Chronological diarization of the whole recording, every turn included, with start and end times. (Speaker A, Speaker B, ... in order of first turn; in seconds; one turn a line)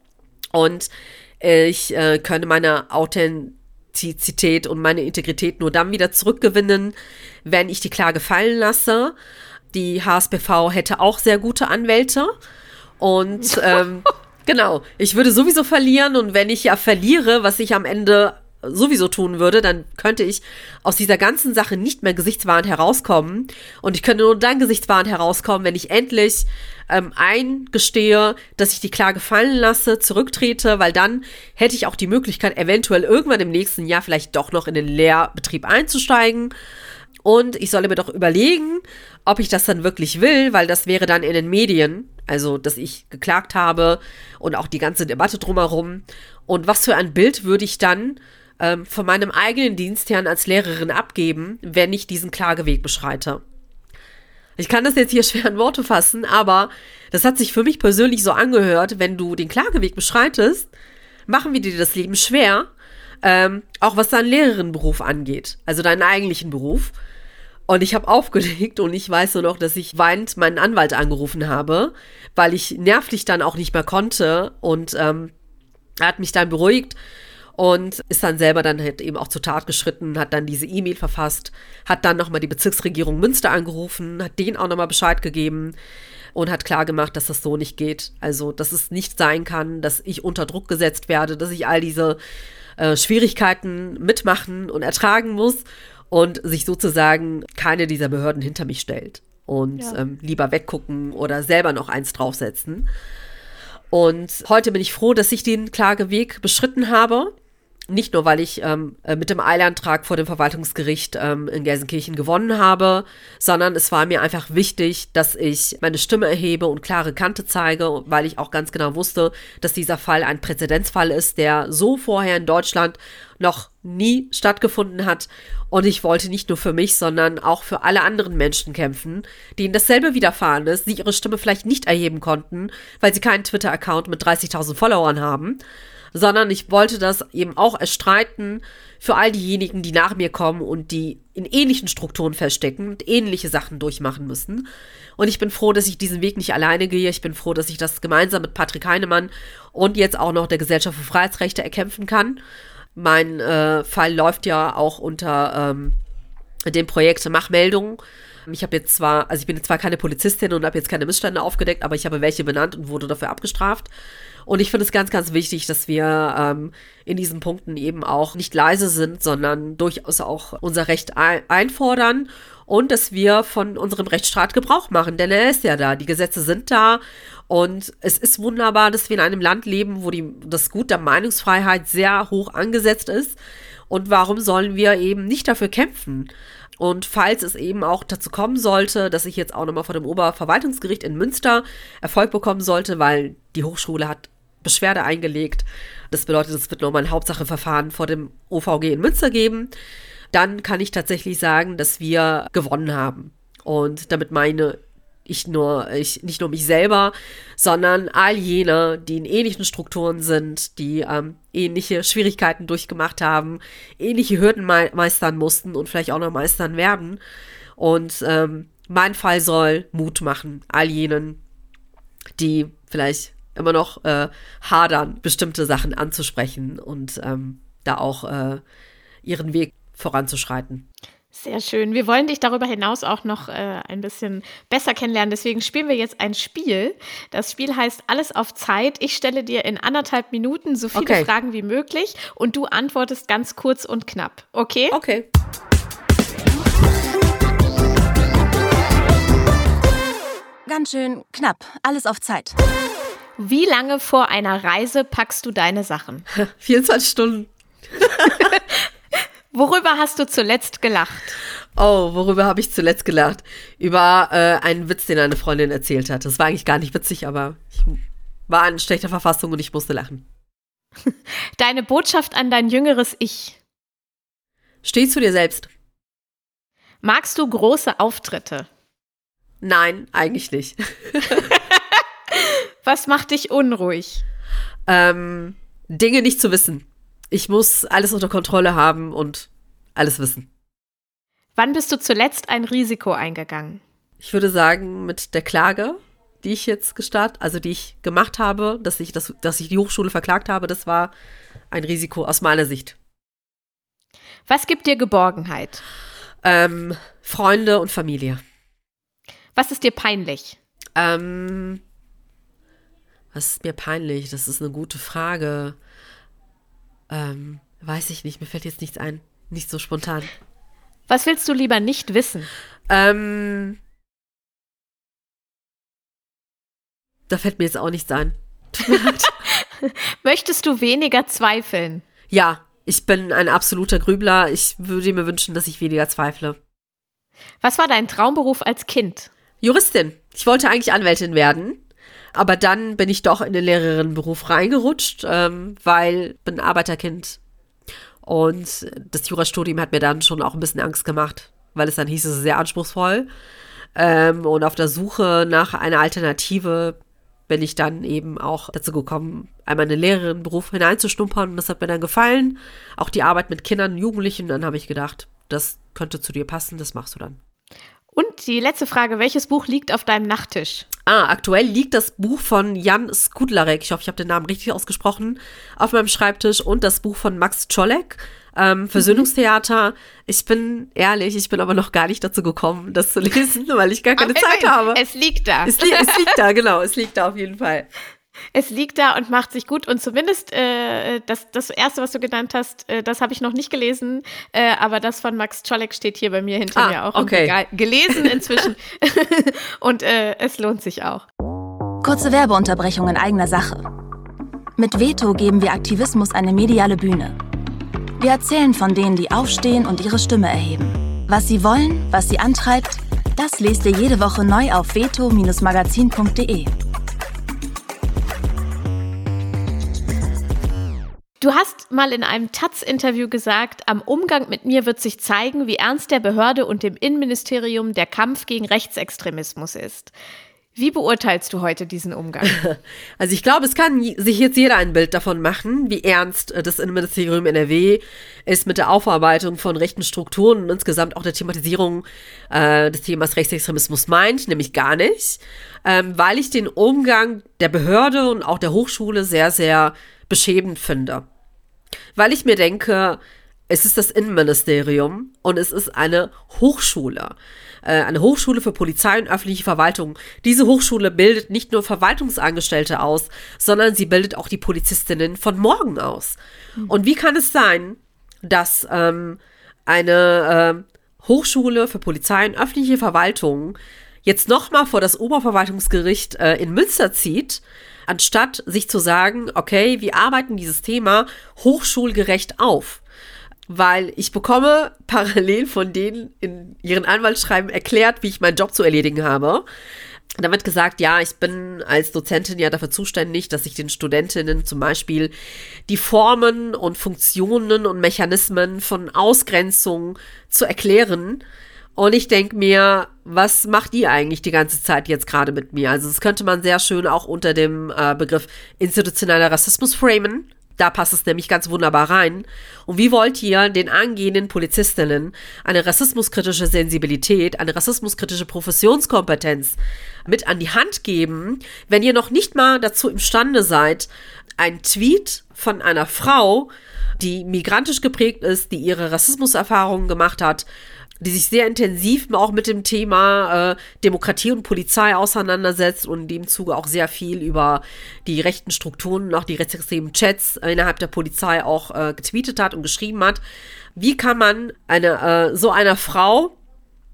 Speaker A: 0.5-9.2
Speaker A: 9.7-12.3
Speaker A: 13.0-36.5
Speaker A: 37.2-53.4
Speaker A: 54.6-60.7
Speaker A: 61.3-62.7
Speaker A: 63.2-66.9
Speaker A: 67.7-75.3
Speaker A: 76.0-77.0
Speaker A: 77.6-85.8
Speaker A: 86.3-92.2
Speaker A: 92.8-102.9
Speaker A: 103.9-107.3
Speaker A: 107.9-135.6
Speaker A: 136.1-144.7
Speaker A: 145.2-152.4
Speaker A: 153.0-156.0
Speaker A: 156.7-163.9
Speaker A: 164.5-183.4
Speaker A: 183.9-199.7
Speaker A: 200.3-217.2
Speaker A: 217.8-221.4
Speaker A: 222.4-228.6
Speaker A: 229.2-230.8
Speaker B: 231.3-245.0
Speaker A: 240.9-241.3
Speaker A: 244.9-245.3
Speaker C: 250.7-252.6
Speaker B: 253.4-256.3
Speaker A: 256.4-258.3
Speaker B: 258.2-258.8
Speaker B: 259.5-261.4
Speaker A: 261.8-270.3
Speaker B: 271.6-273.6
Speaker A: 274.8-275.7
Speaker B: 277.0-278.7
Speaker A: 279.6-281.5
Speaker B: 282.3-284.2
Speaker A: 284.9-290.5
Speaker B: 291.6-293.8
Speaker A: 294.2-301.1
Speaker A: 301.7-303.0
Speaker B: 304.5-305.8
Speaker A: 306.4-308.4
Speaker B: 309.6-310.6
Speaker A: 311.0-311.8
Speaker A: 313.3-315.8
Speaker A: 317.1-320.3
Speaker B: 321.1-322.5
Speaker A: 322.9-323.8
Speaker A: 327.3-329.3
Speaker B: 329.4-332.0
Speaker A: 332.3-336.6
Speaker B: 337.6-339.3
Speaker A: 339.6-341.8
Speaker A: 342.4-347.4
Speaker A: 348.2-353.3
Speaker A: 354.0-367.4
Speaker B: 368.1-370.9
Speaker A: 371.1-385.0
Speaker B: 384.2-386.3
Speaker A: 385.6-387.9
Speaker B: 388.5-401.2
Speaker A: 396.8-397.5
Speaker A: 398.1-398.4
Speaker C: 402.0-403.9
Speaker C: 404.8-407.4
Speaker C: 408.2-416.7
Speaker B: 421.4-430.1
Speaker B: 430.8-432.6
Speaker A: 432.4-451.3
Speaker A: 452.2-483.0
Speaker A: 483.7-489.6
Speaker A: 490.4-495.3
Speaker A: 495.9-501.4
Speaker A: 502.0-530.7
Speaker A: 531.2-543.4
Speaker A: 544.0-546.5